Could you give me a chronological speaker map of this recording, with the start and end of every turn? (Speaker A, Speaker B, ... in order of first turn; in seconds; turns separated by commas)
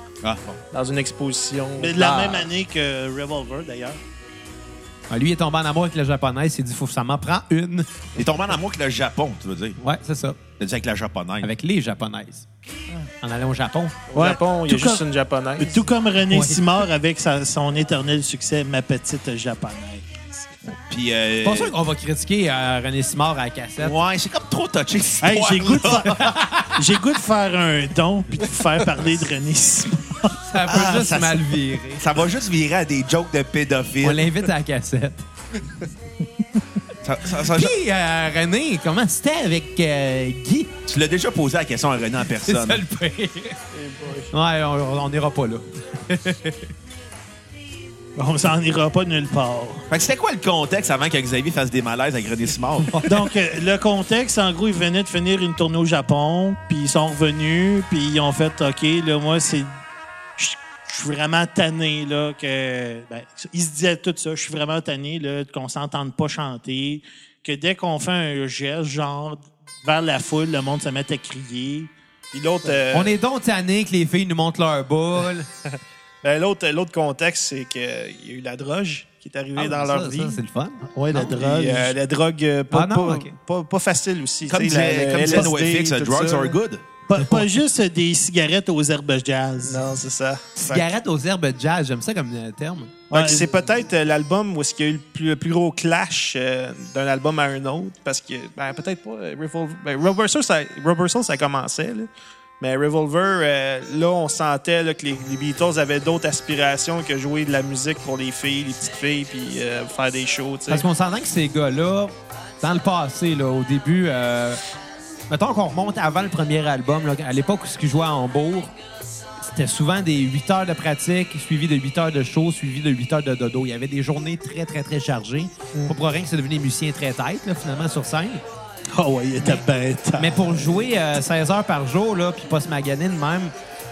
Speaker A: 0.2-0.6, Speaker B: 0.7-2.5, Speaker C: 1.8-4.0, Speaker D: 5.1-8.0, Speaker A: 8.2-9.8, Speaker D: 9.8-10.4, Speaker A: 10.6-11.5, Speaker D: 11.4-12.5, Speaker D: 13.2-14.0, Speaker B: 14.1-15.8, Speaker C: 14.1-15.0, Speaker C: 15.6-20.6, Speaker D: 16.3-16.6, Speaker A: 20.7-21.8, Speaker D: 21.4-24.0, Speaker A: 23.8-26.2, Speaker C: 25.2-31.0, Speaker D: 26.1-26.8, Speaker D: 30.4-32.0, Speaker A: 30.7-31.4, Speaker A: 32.0-34.3, Speaker D: 34.0-35.2, Speaker A: 37.0-37.8, Speaker D: 37.4-40.7, Speaker A: 40.9-42.8, Speaker D: 42.4-43.6, Speaker B: 43.7-44.3, Speaker D: 44.3-46.7, Speaker C: 48.2-49.9, Speaker A: 49.9-53.1, Speaker D: 52.9-53.1, Speaker C: 53.1-59.8, Speaker C: 60.4-71.9, Speaker B: 72.3-73.1, Speaker D: 72.9-75.5, Speaker B: 76.2-80.4, Speaker D: 79.6-81.2, Speaker C: 80.9-82.0, Speaker B: 81.1-86.6, Speaker D: 82.7-83.3, Speaker A: 84.5-86.8, Speaker C: 87.1-89.8, Speaker B: 89.6-90.9, Speaker D: 90.6-92.9, Speaker C: 93.1-93.5, Speaker B: 93.1-102.1, Speaker B: 102.6-110.9, Speaker D: 110.7-114.6, Speaker D: 115.3-118.8, Speaker D: 119.4-128.4, Speaker C: 128.9-130.7, Speaker D: 130.2-133.5